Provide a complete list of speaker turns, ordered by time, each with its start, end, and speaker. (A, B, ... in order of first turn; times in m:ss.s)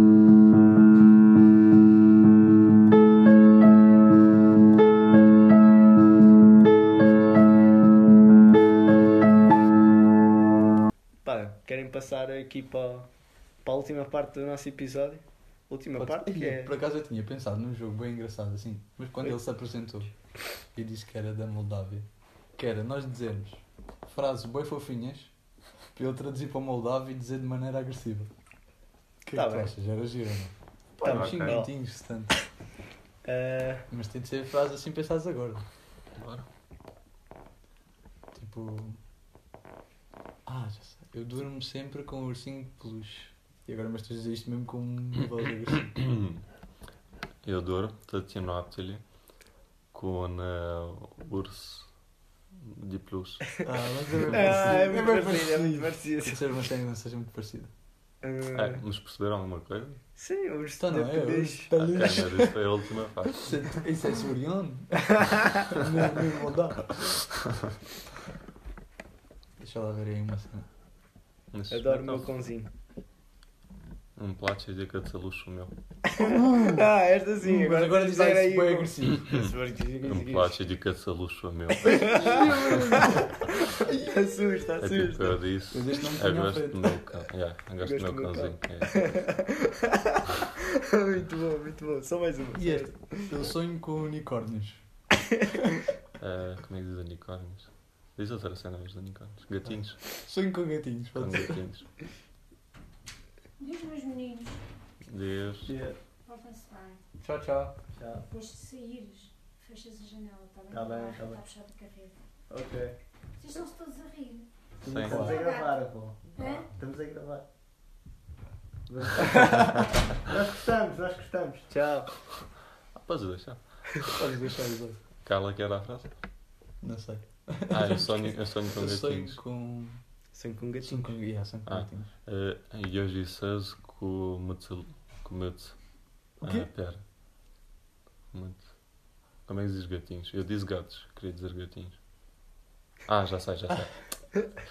0:11.2-0:13.1 A
0:13.6-0:16.7 A
0:16.0-0:20.1 B
0:20.7-0:25.3 B
0:25.9-0:28.3 B
0:29.2-0:32.4 B
0:29.3-0:29.7 A
0:31.0-0:31.7 A
0:31.0-0:31.6 C
0:33.2-0:33.9 A
0:33.9-0:35.6 B
0:36.2-0:36.5 C
0:38.3-0:39.0 B
0:40.5-0:46.0 B
0:47.4-0:49.0 C
0:49.9-0:52.0 C
0:52.5-0:53.6 C
0:53.6-0:57.7 B
0:54.2-0:56.4 A
0:58.2-0:58.8 A
0:58.5-1:00.0 C
1:00.2-1:02.3 A
1:00.8-1:02.6 B
1:01.9-1:03.5 C
1:03.3-1:07.3 B
1:09.6-1:10.7 B
1:11.5-1:12.3 C
1:11.7-1:12.7 A
1:14.2-1:15.8 C
1:16.1-1:20.6 A
1:16.2-1:16.9 B
1:17.4-1:19.3 B
1:20.0-1:22.5 C
1:21.8-1:25.4 A
1:21.9-1:23.4 B
1:24.8-1:29.2 C
1:25.7-1:26.8 B
1:27.8-1:33.5 A
1:32.6-1:34.8 B
1:36.2-1:40.1 C
1:40.2-1:41.6 B
1:41.2-1:42.0 C
1:43.6-1:44.6 D
1:45.0-1:45.7 C
1:45.7-1:46.0 A
1:46.3-1:47.0 D
1:47.2-1:47.8 B
1:47.9-1:48.3 A
1:48.4-1:52.1 D
1:50.7-1:51.5 A
1:52.5-1:53.0 A
1:53.4-1:54.5 D
1:54.8-1:57.4 A
1:54.8-1:55.4 C
1:55.0-1:55.4 B
1:58.9-2:02.4 A
2:02.9-2:04.1 C
2:04.1-2:05.0 B
2:05.2-2:06.1 C
2:06.8-2:10.0 B
2:07.7-2:09.4 C
2:10.3-2:11.2 A
2:10.8-2:12.1 B
2:11.7-2:17.0 C
2:16.4-2:16.7 B
2:18.3-2:18.8 C
2:19.4-2:22.0 C
2:23.1-2:24.1 C